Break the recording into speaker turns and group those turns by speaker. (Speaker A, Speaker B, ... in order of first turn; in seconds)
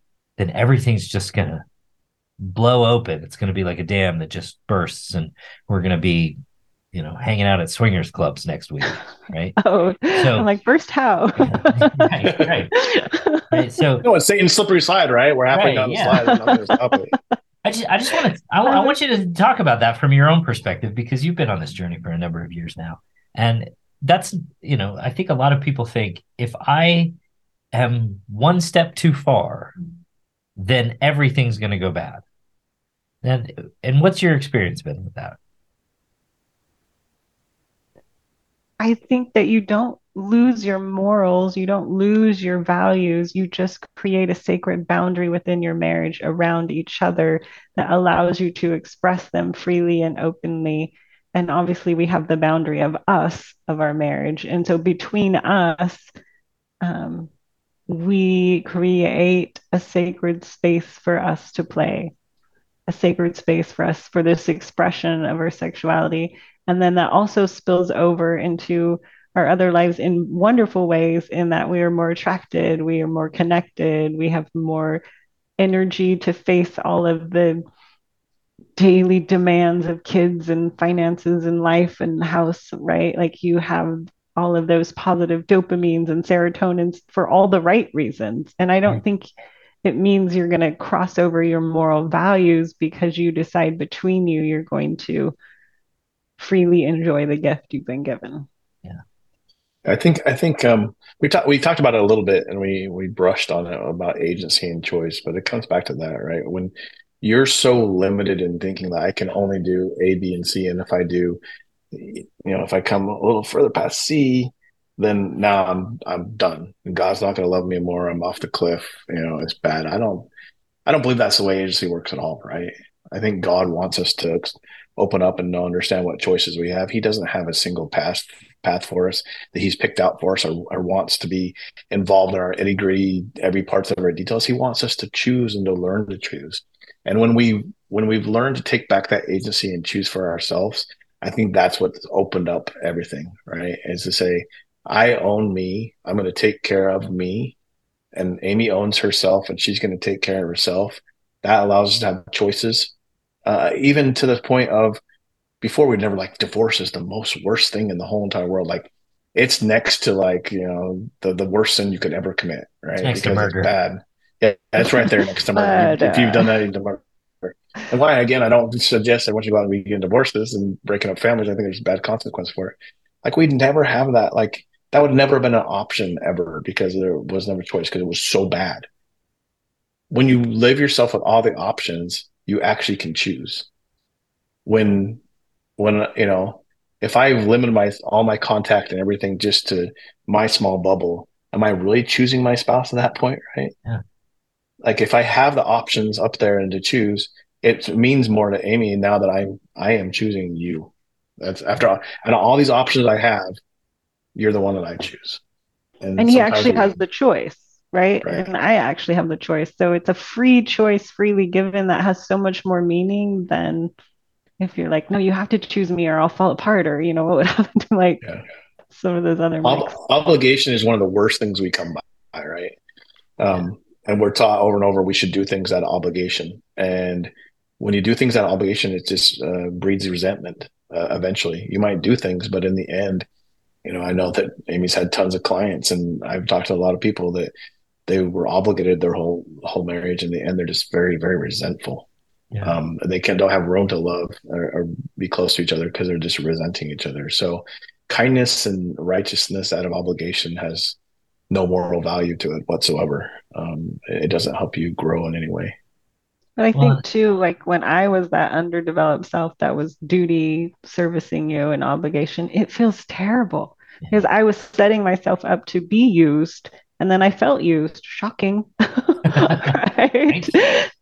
Speaker A: 0.4-1.6, 2.4-6.4, 6.9-9.6, 10.1-10.5, 11.4-12.7, 13.5-14.1, 15.5-16.2, 17.6-27.1, 27.7-29.8, 30.6-32.2, 33.2-35.4, 163.0-163.7, 256.7-257.0, 269.3-269.7, 270.3-270.6
Speaker B: 9.6-12.1, 12.8-13.6, 18.6-18.9, 38.8-56.1, 56.8-57.3, 57.9-62.1, 62.9-75.0, 75.6-77.6, 78.8-89.3, 89.8-95.3, 96.4-98.5, 165.5-166.5, 206.2-213.9, 214.6-218.2, 218.9-219.9, 256.6-270.9
Speaker C: 14.0-17.1, 99.8-111.4, 111.9-120.3, 120.9-147.6, 148.1-152.9, 153.4-155.0, 155.6-178.9, 180.1-183.7, 184.7-185.2, 185.8-193.7, 194.8-203.6, 204.3-205.4, 206.0-207.0, 219.6-222.8, 223.4-233.3, 233.8-237.5, 238.1-242.1, 242.6-251.0, 251.5-255.8